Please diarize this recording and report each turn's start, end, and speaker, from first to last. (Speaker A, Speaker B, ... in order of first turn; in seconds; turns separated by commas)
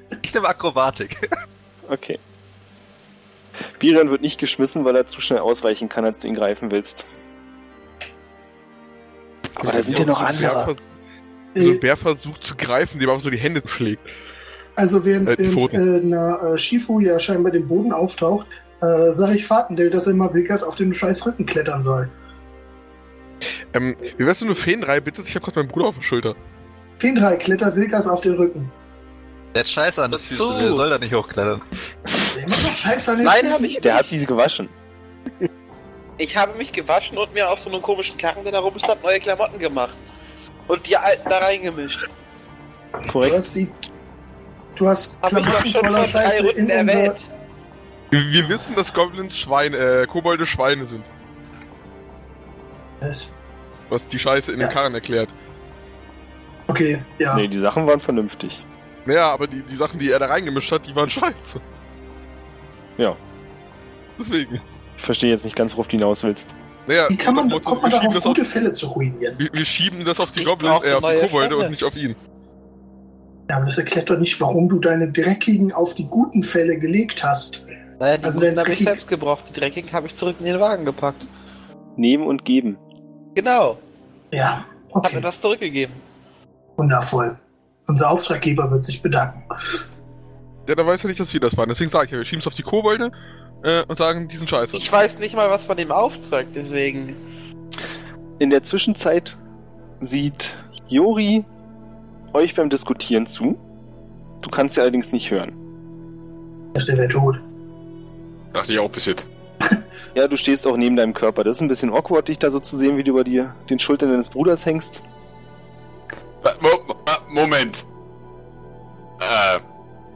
Speaker A: 0.2-1.2, Speaker B: 1.9-2.2, Speaker B: 3.8-7.1, Speaker C: 9.6-10.9, Speaker B: 9.6-10.7, Speaker D: 11.6-11.8, Speaker C: 11.6-14.1, Speaker D: 14.8-22.1, Speaker C: 15.3-15.8, Speaker C: 23.7-26.4, Speaker D: 27.0-28.7, Speaker A: 29.5-31.6, Speaker E: 30.1-30.9, Speaker D: 32.3-33.9, Speaker E: 33.2-34.1, Speaker B: 33.8-34.7, Speaker E: 36.2-40.0, Speaker E: 40.7-42.1, Speaker B: 43.1-43.4, Speaker D: 43.2-43.8, Speaker D: 44.8-47.2, Speaker E: 45.2-47.2, Speaker C: 48.1-51.1, Speaker D: 53.0-53.3, Speaker C: 53.9-55.3, Speaker D: 56.7-57.5, Speaker B: 57.3-58.6, Speaker C: 59.1-61.6, Speaker C: 64.2-64.6, Speaker B: 65.0-66.5, Speaker C: 66.9-68.4, Speaker D: 67.1-69.4, Speaker C: 69.4-72.2, Speaker E: 70.3-71.7, Speaker D: 73.5-77.6, Speaker E: 78.0-81.3, Speaker D: 78.2-79.0, Speaker B: 82.0-82.8, Speaker E: 83.4-83.8, Speaker D: 84.3-85.3, Speaker E: 85.0-86.0, Speaker D: 86.8-89.5, Speaker C: 90.7-94.9, Speaker E: 94.7-97.2, Speaker B: 98.4-99.4, Speaker B: 100.0-101.5, Speaker B: 102.3-103.6, Speaker B: 104.4-105.5, Speaker D: 106.8-107.4, Speaker F: 108.5-109.3, Speaker B: 110.2-115.0, Speaker F: 116.4-117.8, Speaker F: 119.2-119.6